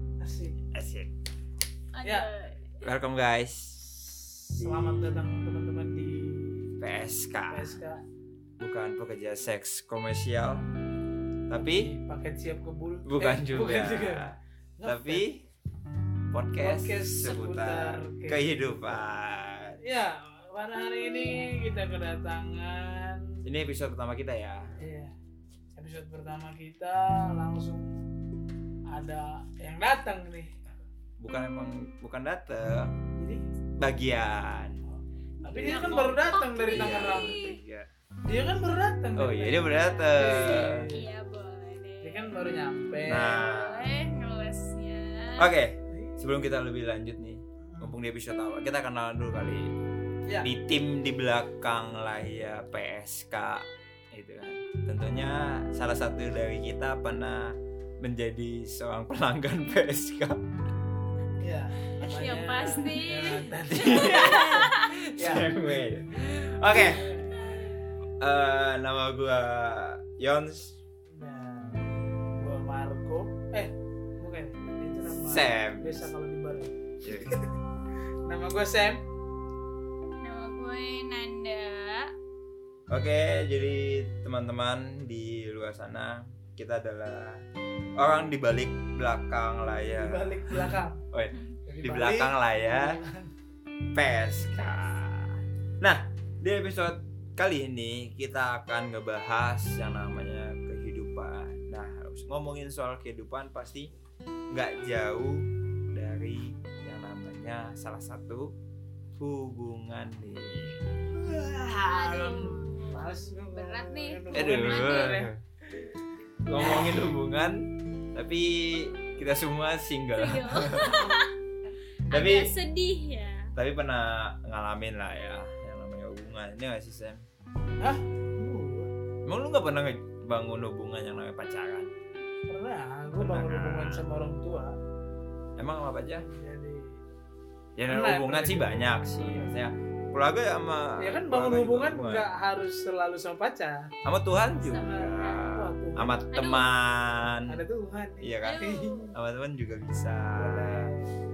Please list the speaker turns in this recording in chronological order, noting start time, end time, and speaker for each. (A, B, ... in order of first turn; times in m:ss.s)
0:00.2-0:00.5 A
0:00.7-0:01.1 B
0:01.9-0:02.7 C
0:02.8-0:03.9 B
0:04.4-0:06.7 A
0:04.5-0:05.2 B
0:06.8-0:07.8 B
0:07.5-0:08.0 A
0:08.6-0:10.7 B
0:11.5-0:11.9 B
0:11.5-0:15.2 A
0:13.0-0:15.4 B
0:16.3-0:19.8 B
0:16.6-0:18.5 A
0:19.8-0:23.4 A
0:23.4-0:24.7 B
0:24.8-0:25.1 A
0:25.8-0:27.9 A
0:28.9-0:30.5 A
0:31.2-0:32.9 B
0:33.2-0:33.4 A
0:33.8-0:34.8 B
0:34.9-0:37.4 A
0:35.4-0:37.6 C
0:35.6-0:36.1 B
0:36.7-0:37.9 B
0:38.2-0:41.0 A
0:39.2-0:40.9 B
0:39.6-0:40.4 C
0:40.9-0:42.3 C
0:42.0-0:43.4 A
0:43.1-0:43.9 B
0:43.2-0:45.5 C
0:45.4-0:49.7 B
0:45.9-0:46.2 A
0:47.6-0:47.9 A
0:50.4-1:00.4 B
1:01.4-1:04.6 A
1:02.0-1:04.8 C
1:03.7-1:07.1 B
1:05.2-1:05.8 A
1:06.7-1:07.7 A
1:08.2-1:10.8 B
1:11.1-1:17.5 A
1:15.2-1:16.1 B
1:17.0-1:17.4 B
1:18.2-1:19.0 A
1:20.2-1:22.1 C
1:22.9-1:27.4 B
1:28.0-1:33.0 B
1:29.9-1:31.0 A
1:31.6-1:33.3 A
1:33.9-1:43.9 B
1:44.5-1:48.5 B
1:49.2-1:50.8 B
1:51.2-1:55.3 A
1:51.9-1:55.2 C
1:54.3-1:55.4 B
1:56.4-2:01.1 B
2:00.1-2:01.3 C
2:02.1-2:03.5 C
2:02.1-2:02.5 B
2:03.6-2:07.2 B
2:07.8-2:08.9 A
2:09.2-2:11.9 B
2:12.5-2:14.8 A
2:13.1-2:14.0 B
2:15.6-2:16.3 B
2:16.2-2:17.0 A
2:17.8-2:22.3 B
2:17.9-2:19.5 A
2:21.0-2:23.9 A
2:24.0-2:27.6 B
2:24.6-2:25.4 C
2:24.7-2:26.1 A
2:26.3-2:26.7 C
2:27.5-2:28.4 A
2:28.2-2:30.9 B
2:28.4-2:29.1 C
2:30.4-2:31.1 A